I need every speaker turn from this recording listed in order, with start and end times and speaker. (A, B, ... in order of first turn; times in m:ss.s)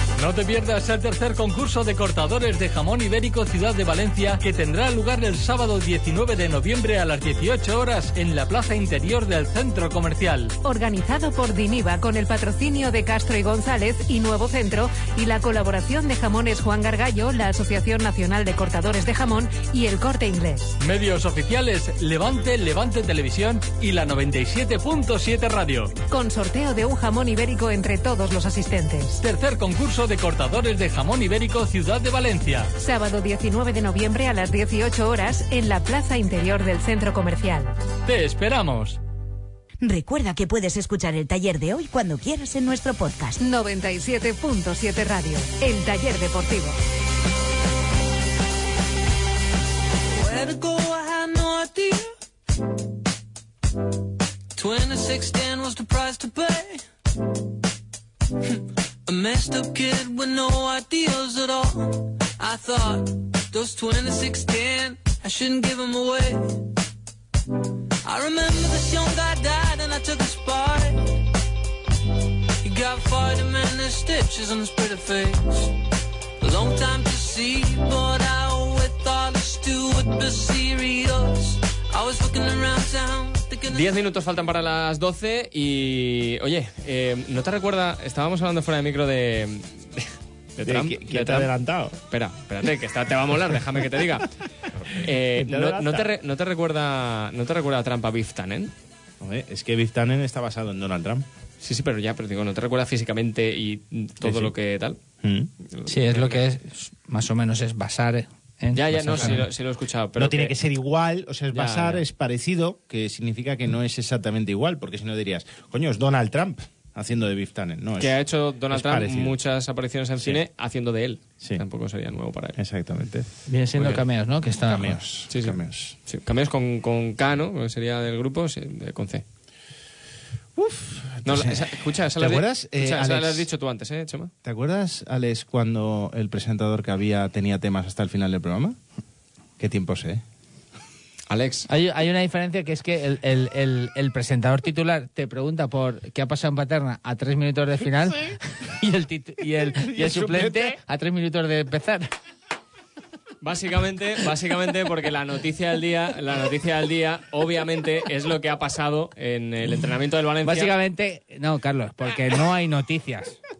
0:00.2-0:10.5 A
0:10.6-0:20.8 B
0:20.8-0:25.9 A
0:26.1-0:29.2 B
0:29.2-0:32.7 A
0:32.8-0:37.7 B
0:38.0-0:39.0 A
0:39.8-0:43.4 C
0:43.4-0:46.8 B
0:50.1-0:52.1 D
0:54.5-0:56.8 D
0:58.4-1:06.6 D
1:08.0-1:11.2 D
1:12.6-1:15.8 D
1:16.4-1:23.9 D
1:23.7-1:31.5 E
1:30.6-1:32.0 F
1:32.1-1:34.3 E
1:34.9-1:38.7 E
1:35.2-1:36.1 F
1:39.2-1:41.2 F
1:41.6-1:45.0 E
1:44.2-1:44.5 F
1:45.2-1:45.5 F
1:45.7-1:46.4 E
1:45.8-1:49.4 G
1:48.7-1:50.6 E
1:49.1-1:49.4 F
1:50.2-1:58.2 F
1:51.5-1:52.0 E
1:58.0-2:02.6 E
1:58.7-1:59.4 F
2:02.6-2:03.3 F
2:03.5-2:05.0 G
2:04.6-2:05.9 F
2:05.3-2:09.2 E
2:10.6-2:13.5 F
2:11.2-2:14.3 E
2:14.4-2:18.8 F
2:19.6-2:20.2 F
2:21.3-2:21.7 E
2:21.7-2:32.1 G
2:29.6-2:30.8 F
2:33.4-2:40.7 E
2:40.4-2:43.4 G